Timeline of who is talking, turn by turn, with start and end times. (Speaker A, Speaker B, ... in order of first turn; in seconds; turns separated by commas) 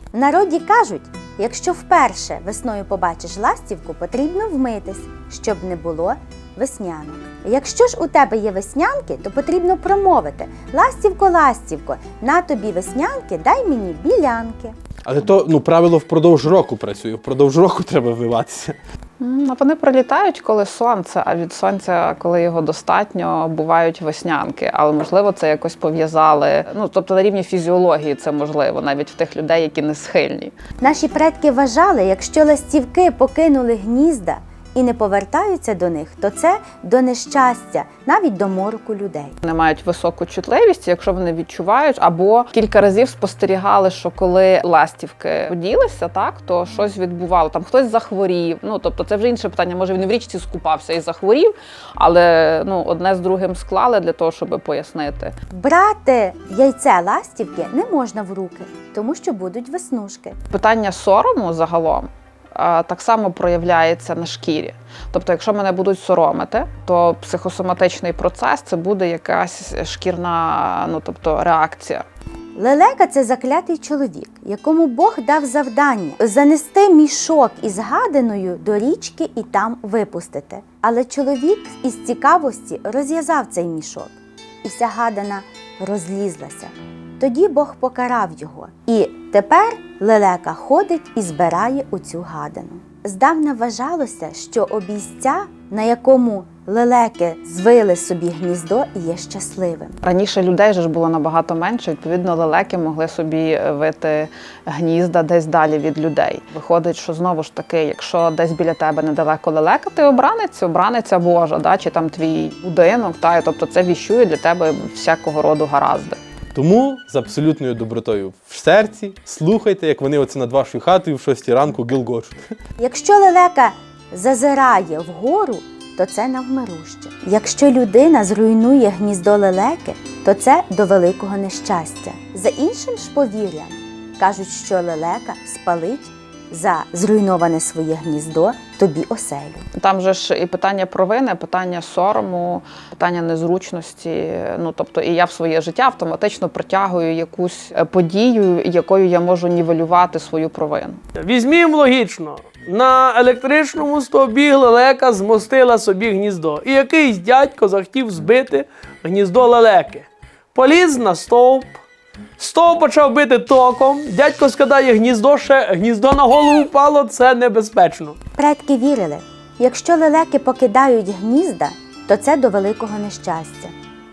Speaker A: 0.1-14.7, Speaker B: 15.1-18.8, Speaker C: 19.2-30.5, Speaker A: 30.8-39.4, Speaker C: 39.4-55.4, Speaker A: 55.5-60.4, Speaker C: 60.5-72.0, Speaker A: 72.6-100.0, Speaker C: 100.0-116.2, Speaker B: 116.5-122.4, Speaker A: 122.8-139.7, Speaker C: 139.8-151.0, Speaker D: 151.2-161.7, Speaker D: 162.4-168.2, Speaker A: 168.4-173.7